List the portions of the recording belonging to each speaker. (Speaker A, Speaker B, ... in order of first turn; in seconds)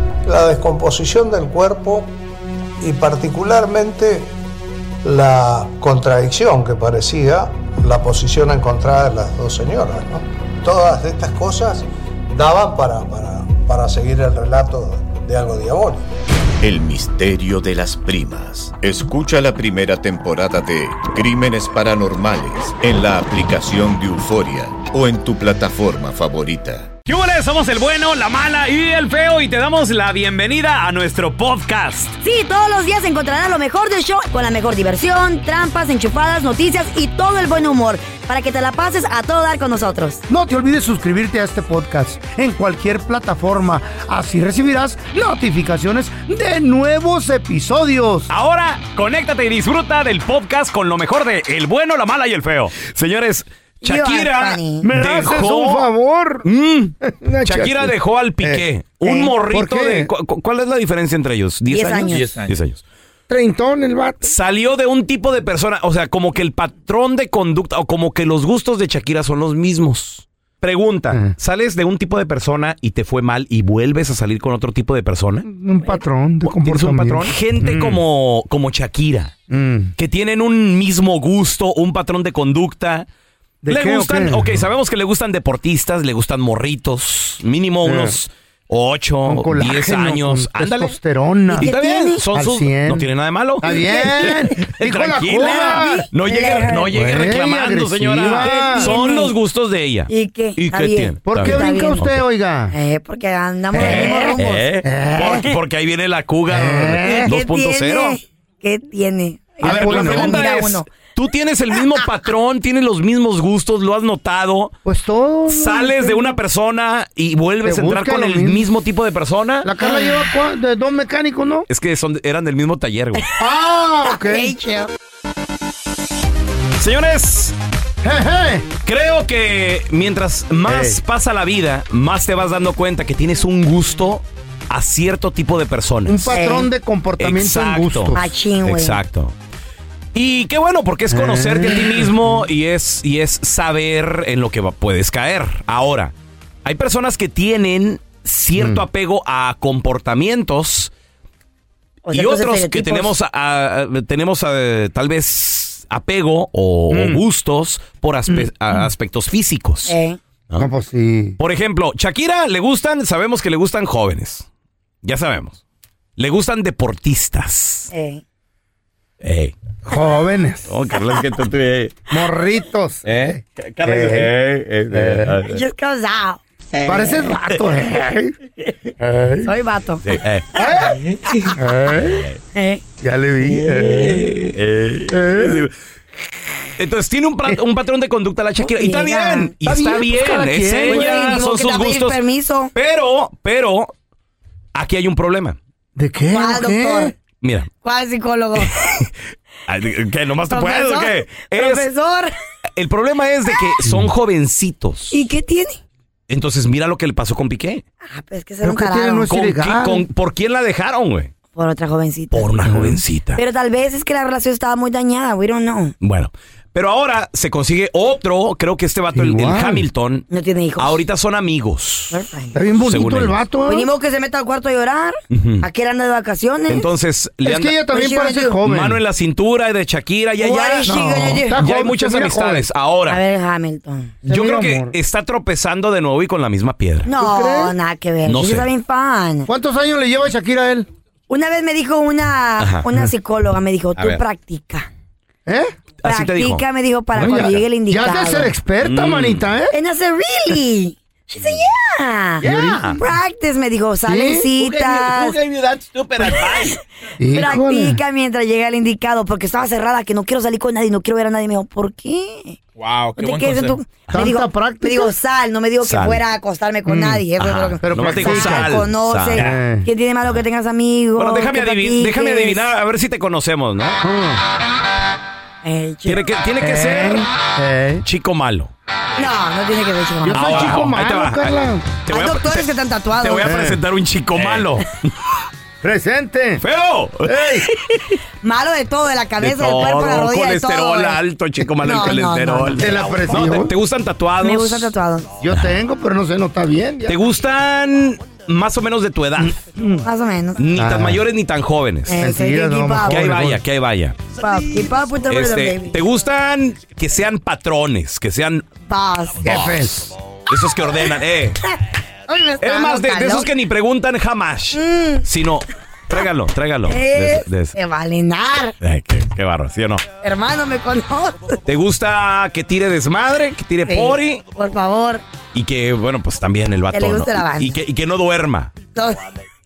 Speaker A: 0.2-2.1, 2.8-4.3, 5.0-16.0
Speaker B: 16.6-26.9
Speaker C: 27.1-32.1, 48.3-55.9, 56.4-62.8, 64.2-75.5, 76.4-79.3, 80.0-83.1, 83.7-91.0, 91.6-102.2, 103.8-108.2, 109.6-114.7, 115.5-119.7, 121.7-123.2, 126.8-127.5, 128.8-136.3, 137.2-139.3, 140.1-146.1, 146.6-150.9, 152.1-159.9, 161.4-164.4, 165.0-165.6, 166.2-167.9, 169.2-169.5, 170.7-172.0, 173.1-175.6, 180.0-181.5, 182.0-182.4, 183.7-185.7, 186.8-192.2, 192.7-193.9, 194.7-195.6, 197.4-197.7, 199.7-201.9, 202.8-205.2, 206.3-207.8, 209.3-211.3, 212.3-213.4, 216.0-220.3, 220.8-222.2, 222.8-223.4, 225.3-225.6, 226.7-227.8, 228.6-233.2, 234.2-237.1, 238.2-238.7, 242.6-243.0, 246.0-246.6, 247.2-247.6, 248.8-249.5, 252.4-253.0, 254.6-256.8, 262.8-263.7, 265.8-266.2, 267.4-269.6, 271.2-274.0, 276.1-277.3, 278.0-278.7, 280.2-285.1, 286.6-288.2, 289.4-294.9, 297.1-299.6, 300.6-302.2, 303.1-304.2, 305.3-308.7, 309.4-311.6, 312.6-317.7, 318.8-320.0, 321.7-324.4, 325.5-328.7
Speaker D: 32.2-40.2, 53.8-54.9, 61.7-62.2, 91.5-92.2, 95.7-96.9, 98.5-99.3, 100.1-102.0, 102.7-104.7, 107.0-110.9, 124.1-124.9, 136.3-136.7, 138.1-139.0, 152.1-153.1, 159.9-160.2, 167.9-168.2, 175.4-176.4, 179.4-180.0, 182.5-182.8, 188.6-189.5, 190.8-192.7, 196.3-197.1, 197.8-198.8, 200.5-202.3, 205.1-205.8, 208.1-209.3, 211.5-212.5, 213.3-215.9, 220.3-221.0, 222.1-222.6, 223.7-226.9, 227.9-228.6, 230.4-231.6, 233.1-234.1, 237.1-239.5, 241.3-244.9, 246.0-248.5, 249.7-255.3, 257.3-262.6, 263.2-272.6, 275.6-276.2, 279.2-280.7, 282.1-283.5, 288.4-291.2, 291.8-293.4, 294.4-295.3, 300.0-300.6, 302.1-303.2, 304.3-305.9, 308.9-309.5, 311.6-313.5, 314.7-315.2, 316.9-318.7, 320.2-321.6, 323.9-325.2, 326.9-327.7, 328.9-329.3
Speaker E: 40.3-48.3, 54.8-56.5, 57.0-60.1, 63.3-64.3, 75.4-78.0, 79.5-79.9, 83.6-84.6, 87.8-88.2, 89.2-91.7, 92.3-93.1, 93.6-96.1, 96.9-98.9, 101.3-102.7, 103.7-105.6, 106.5-107.3, 109.6-110.5, 114.8-116.1, 117.6-118.7, 119.6-121.7, 123.4-124.5, 128.0-128.7, 130.6-131.0, 136.1-138.2, 141.1-142.1, 148.6-148.8, 156.9-157.2, 160.6-161.4, 169.9-170.7, 172.1-174.4, 174.9-175.4, 176.8-178.3, 179.0-179.5, 180.5-181.0, 181.5-182.3, 183.0-184.4, 185.1-185.6, 189.6-191.4, 195.9-197.1, 208.6-210.0, 212.6-213.0, 219.1-219.8, 222.5-223.9, 227.4-229.0, 230.8-232.7, 234.2-234.9, 237.1-237.7, 239.5-240.9, 245.4-245.7, 247.2-249.7, 252.4-253.0, 254.1-254.5, 257.2-258.0, 264.1-265.1, 266.9-267.2, 267.8-268.8, 269.4-269.9, 274.0-274.4, 276.6-278.0, 280.2-281.9, 283.4-283.8, 285.8-286.6, 287.2-287.7, 292.8-293.7, 295.4-297.1, 299.4-300.0, 300.7-301.2, 302.2-303.6, 309.4-310.1